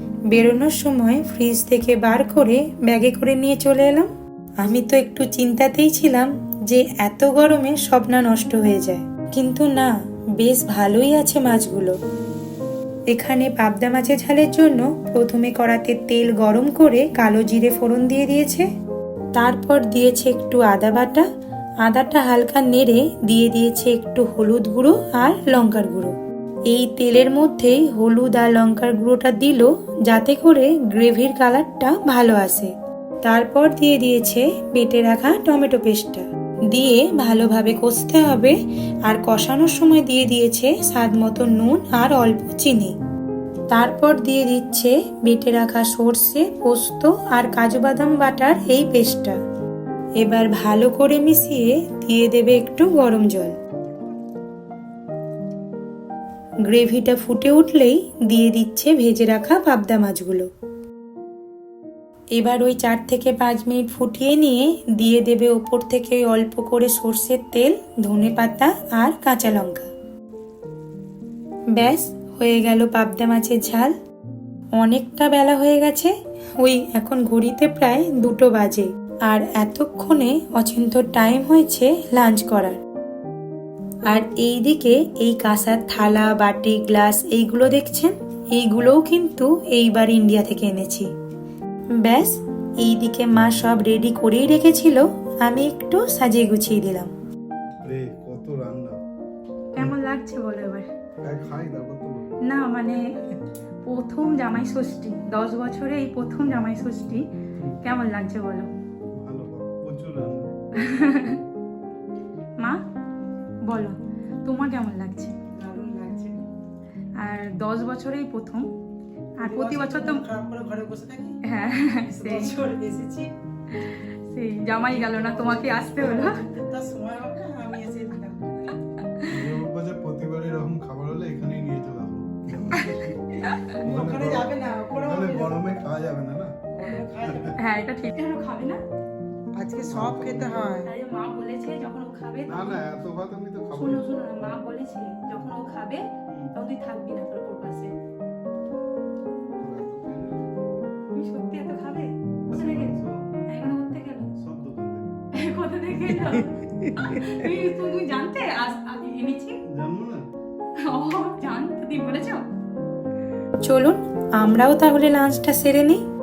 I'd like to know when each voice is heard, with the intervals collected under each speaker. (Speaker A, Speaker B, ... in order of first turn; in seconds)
Speaker A: 0.3-12.0, 13.1-18.6, 19.4-21.2, 21.8-26.1, 26.7-43.0, 43.7-49.4, 50.2-53.5, 56.6-60.5, 62.3-69.9, 71.7-73.9, 74.8-82.8, 84.1-91.1, 92.0-97.1, 99.8-100.9, 102.5-103.1, 103.8-107.2, 107.8-108.7, 110.8-111.4, 113.7-115.4, 117.2-118.7, 119.4-120.2, 121.5-122.5, 124.3-126.4, 137.6-138.8, 140.8-142.8, 143.7-147.9, 151.1-152.9, 153.5-154.3, 155.4-159.6, 160.8-162.5, 163.6-166.0
Speaker B: 97.8-99.0, 101.2-102.4, 109.2-110.5, 129.2-133.1, 133.7-136.6, 137.3-137.6, 139.8-140.7, 142.4-144.6, 146.3-146.5, 149.6-150.6, 152.5-153.2, 154.4-155.2, 159.7-160.2
Speaker C: 115.4-116.5, 119.4-123.3, 124.6-128.8, 133.4-135.8, 136.7-137.6, 139.5-140.9